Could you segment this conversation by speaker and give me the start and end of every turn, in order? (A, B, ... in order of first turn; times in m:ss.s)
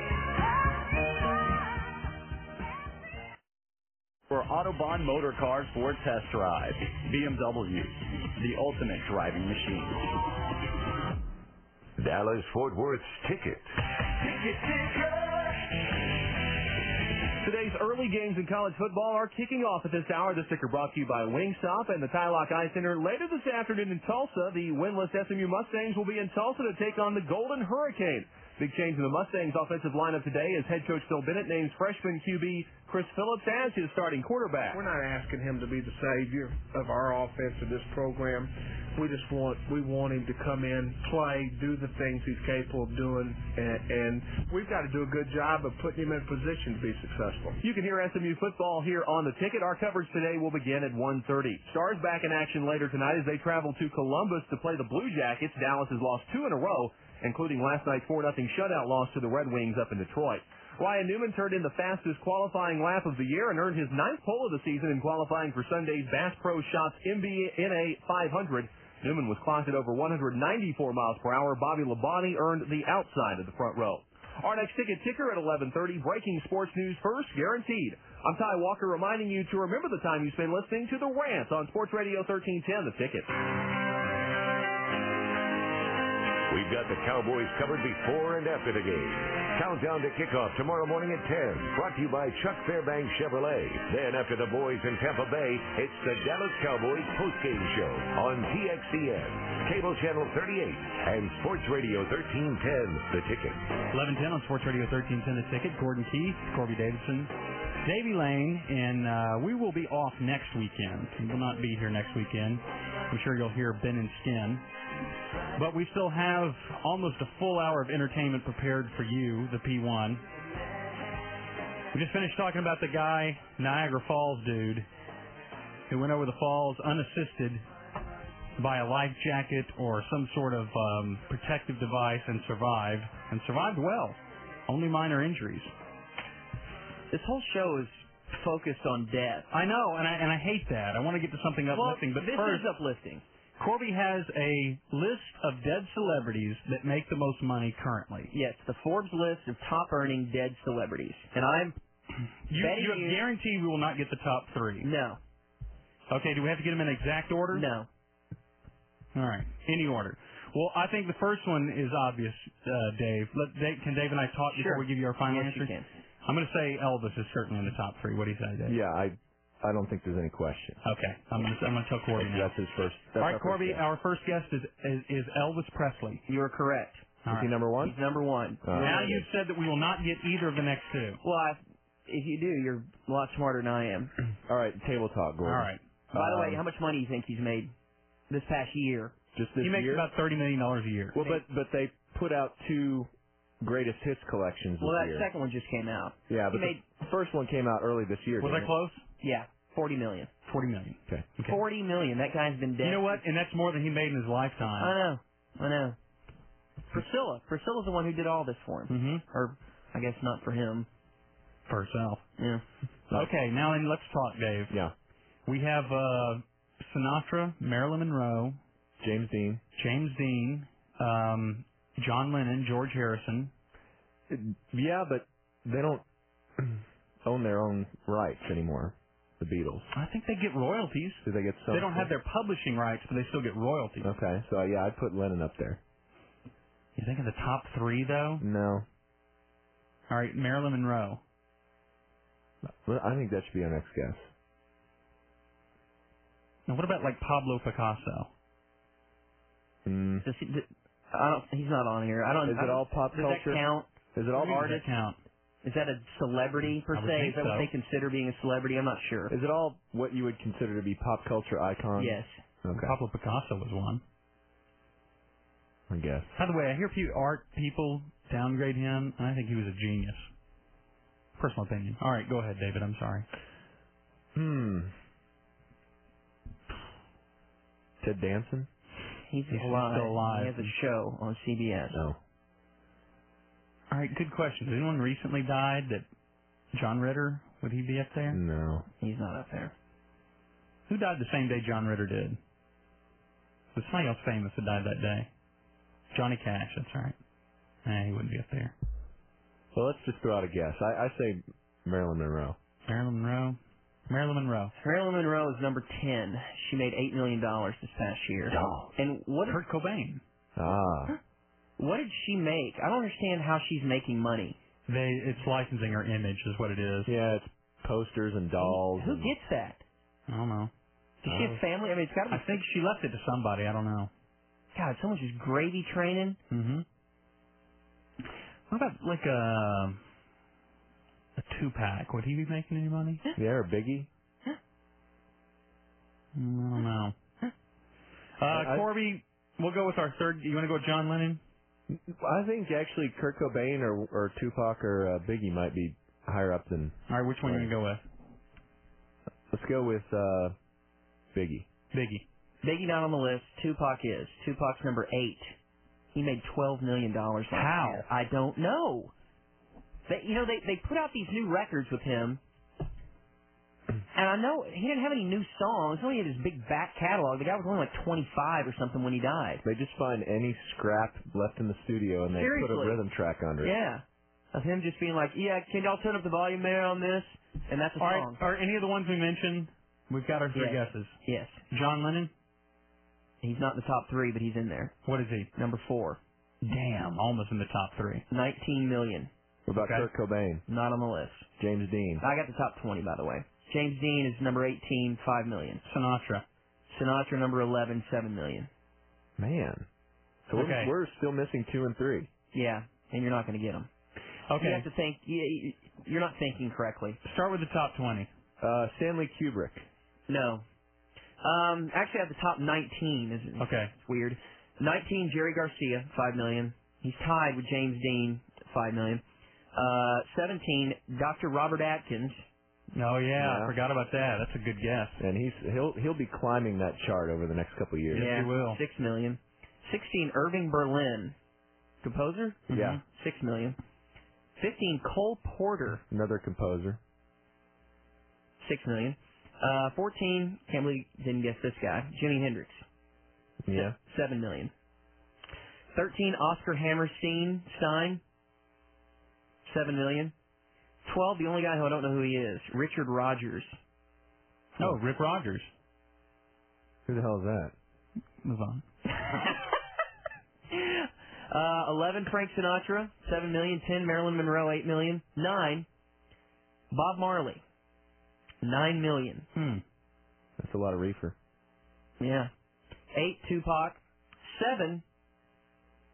0:04.3-0:10.0 A
0:12.0-0:13.7 B
0:17.4-0:34.8 C
0:34.7-0:47.6 D
0:47.6-1:23.3 C
1:26.5-1:43.7 B
1:43.9-1:47.3 E
1:47.8-1:54.6 E
1:55.6-2:00.2 E
2:01.9-2:04.9 E
2:05.9-2:07.6 E
2:08.6-2:15.7 E
2:17.1-2:19.5 F
2:19.5-2:22.7 E
2:21.7-2:23.2 F
2:23.6-2:28.3 E
2:28.3-2:31.8 F
2:32.5-2:34.9 E
2:32.5-2:33.2 F
2:34.8-2:35.2 F
2:36.1-2:37.7 E
2:37.5-2:37.9 F
2:39.2-2:48.8 E
2:44.5-2:45.9 F
2:48.7-2:50.8 G
2:50.8-2:52.6 E
2:52.1-2:53.8 G
2:53.2-2:56.2 E
2:56.3-2:57.2 F
2:57.2-2:57.6 E
2:57.3-2:58.0 G
2:57.8-2:59.2 F
2:58.6-2:59.3 G
2:58.7-3:01.2 E
3:01.2-3:04.1 F
3:04.5-3:06.6 G
3:05.4-3:05.8 E
3:06.1-3:07.7 F
3:08.3-3:09.1 F
3:09.4-3:10.1 G
3:09.6-3:11.2 E
3:11.1-3:13.1 G
3:11.2-3:11.4 F
3:13.6-3:15.3 G
3:14.8-3:16.8 F
3:16.3-3:18.7 G
3:18.4-3:19.1 E
3:19.2-3:20.3 F
3:20.4-3:21.6 E
3:21.4-3:23.2 F
3:22.8-3:25.0 E
3:24.8-3:26.0 F
3:26.9-3:30.9 F
3:28.9-3:29.3 E
3:31.7-3:32.3 E
3:32.4-3:32.6 F
3:33.1-3:34.8 E
3:35.5-3:38.6 E
3:39.0-3:39.6 G
3:39.8-3:43.5 E
3:44.3-3:46.0 G
3:46.6-3:49.9 G
3:49.9-3:54.1 E
3:51.2-3:52.1 G
3:54.0-3:55.8 G
3:57.0-3:58.4 E
3:58.4-3:58.9 G
4:00.1-4:01.2 E
4:02.8-4:04.3 G
4:06.7-4:08.3 E
4:09.8-4:10.2 G
4:10.2-4:13.9 F
4:12.4-4:13.6 G
4:14.2-4:14.6 G
4:14.3-4:15.2 E
4:14.4-4:14.9 F
4:15.6-4:19.3 F
4:16.9-4:17.7 E
4:19.3-4:23.0 G
4:22.0-4:22.4 F
4:22.8-4:24.0 E
4:25.9-4:26.3 G
4:26.4-4:30.3 E
4:31.4-4:33.3 E
4:34.4-4:34.9 G
4:38.0-4:38.7 G
4:39.3-4:42.0 F
4:39.5-4:40.7 E
4:43.9-4:46.1 E
4:46.7-4:48.4 E
4:48.3-4:48.9 G
4:49.0-4:49.7 F
4:50.9-4:52.4 E
4:53.7-4:55.3 E
4:56.1-4:57.2 E
4:57.8-4:58.8 E
4:59.7-5:02.6 G
5:02.9-5:04.7 E
5:04.8-5:09.6 F
5:09.5-5:10.2 E
5:10.6-5:11.2 G
5:11.8-5:14.6 F
5:14.9-5:17.1 E
5:17.1-5:19.3 G
5:18.6-5:19.8 F
5:20.3-5:20.7 E
5:21.2-5:22.6 F
5:21.3-5:21.6 G
5:22.3-5:24.1 E
5:24.7-5:26.4 F
5:26.5-5:26.8 E
5:28.7-5:30.0 E
5:31.4-5:33.2 E
5:33.4-5:34.1 G
5:36.4-5:37.2 E
5:38.4-5:41.4 E
5:38.5-5:38.9 G
5:41.9-5:47.7 G
5:47.1-5:48.0 E
5:49.5-5:50.6 G
5:51.3-5:51.7 G
5:51.9-5:52.3 E
5:52.6-5:55.5 F
5:56.1-5:59.1 F
5:57.5-5:58.1 E
6:00.1-6:02.4 F
6:04.1-6:09.6 F
6:09.6-6:13.8 G
6:12.3-6:13.0 F
6:13.6-6:18.4 F
6:18.0-6:22.3 E
6:20.5-6:21.6 F
6:23.4-6:25.0 F
6:25.0-6:25.5 E
6:25.6-6:26.2 F
6:26.6-6:28.2 E
6:28.3-6:29.3 F
6:29.7-6:30.6 G
6:29.8-6:30.1 E
6:30.7-6:31.5 F
6:31.6-6:32.2 G
6:32.2-6:35.8 F
6:35.8-6:36.4 E
6:36.9-6:38.7 F
6:39.4-6:39.9 G
6:40.5-6:42.3 G
6:40.5-6:40.9 E
6:42.5-6:43.9 F
6:44.5-6:44.9 E
6:44.6-6:47.2 F
6:47.2-6:48.3 E
6:48.6-6:49.8 G
6:50.3-6:50.6 F
6:51.4-6:59.2 F
6:53.6-6:54.0 E
6:59.7-7:02.4 F
7:02.9-7:05.2 E
7:03.4-7:03.8 G
7:05.2-7:08.3 G
7:08.1-7:08.8 E
7:08.1-7:11.4 F
7:12.0-7:13.8 F
7:12.7-7:13.0 G
7:12.7-7:13.0 E
7:14.6-7:16.0 F
7:16.1-7:17.0 G
7:18.6-7:22.8 F
7:23.6-7:24.0 G
7:23.7-7:24.7 F
7:25.9-7:28.2 F
7:29.6-7:30.3 F
7:31.0-7:33.8 F
7:34.8-7:35.7 E
7:37.1-7:37.7 G
7:38.4-7:38.8 E
7:40.7-7:45.9 F
7:46.9-7:47.6 F
7:48.6-7:49.5 F
7:50.6-7:51.4 G
7:52.2-7:52.5 F
7:53.1-7:55.0 F